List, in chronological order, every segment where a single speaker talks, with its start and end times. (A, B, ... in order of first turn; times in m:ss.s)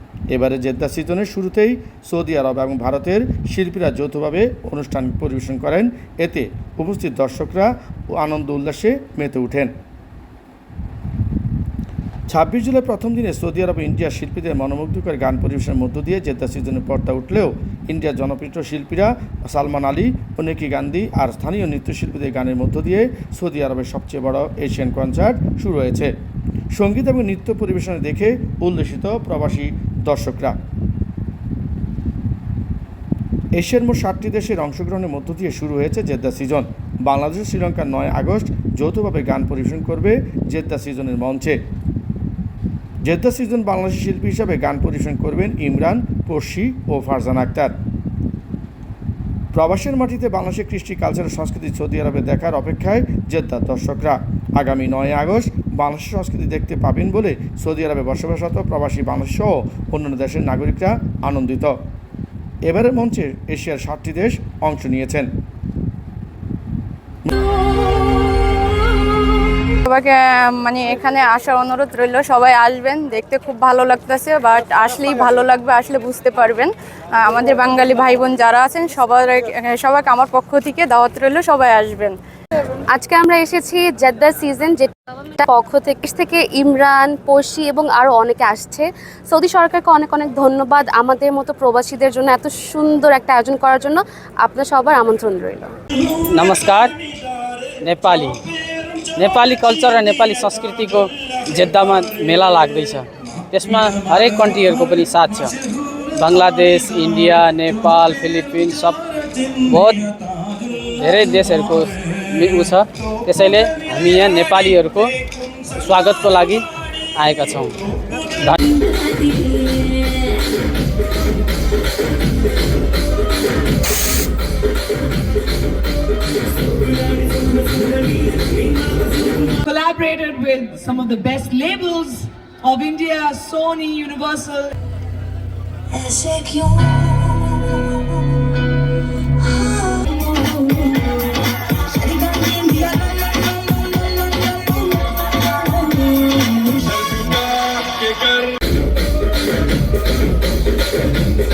0:00.3-0:09.7 A
0:12.3-0:26.1 A
0:26.7-0:30.6 A
0:33.6-0:41.6 A
0:43.0-0:47.7 A
0:49.5-1:01.8 A
1:02.6-1:05.3 A
1:09.9-1:22.2 B
1:22.9-1:35.8 C
1:36.1-1:37.0 D
1:37.8-1:38.4 D
1:39.2-1:45.6 D
1:46.2-1:55.1 D
1:55.7-1:56.6 D
1:57.2-1:57.8 D
1:58.3-1:58.8 D
2:09.4-2:14.7 E
2:16.0-2:17.8 C
2:19.8-2:20.8 C
2:22.0-2:22.4 E
2:22.1-2:23.4 C
2:24.2-2:24.8 C
2:25.4-2:26.2 C